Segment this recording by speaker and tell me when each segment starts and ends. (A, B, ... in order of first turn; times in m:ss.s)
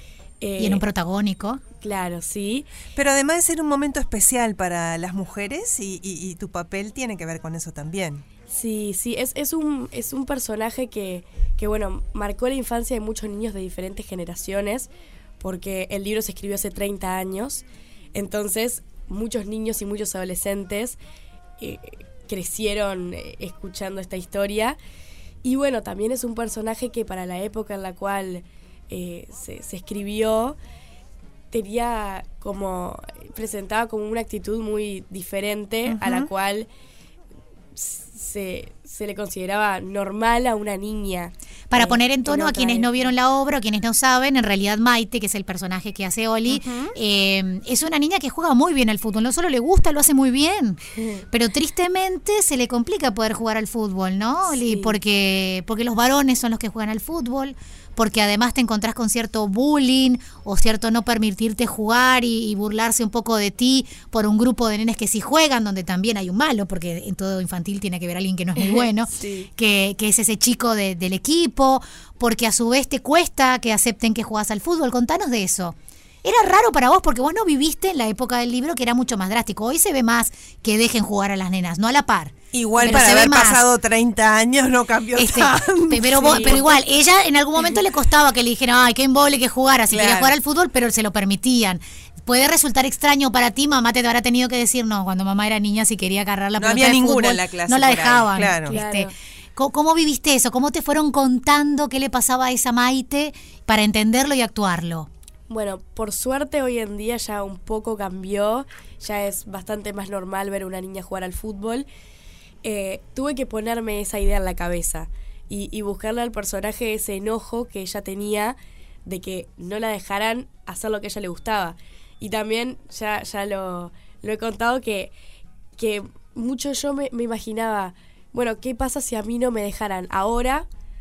0:00.4-0:00.8 A
0:00.6-0:01.6 B
0:01.8-0:02.7 A
0:03.0-0:08.2 C
0:08.5-0:14.9 A
0:15.4-0:17.6 A
0:18.2-0:21.0 A
0:21.6-0:24.8 A
0:25.4-0:30.6 A
0:31.5-0:36.7 A
0:35.9-0:36.3 C
0:37.8-0:43.1 A
0:41.7-1:23.6 B
0:46.5-0:46.9 A
0:51.0-0:51.2 A
0:54.5-0:55.0 A
1:08.6-1:09.5 A
1:22.5-1:26.7 C
1:25.2-1:45.1 B
1:26.3-1:26.6 A
1:29.9-1:30.3 C
1:36.6-1:38.8 C
1:38.7-1:39.1 A
1:45.5-1:51.9 A
1:52.6-2:05.1 A
2:05.8-2:10.7 A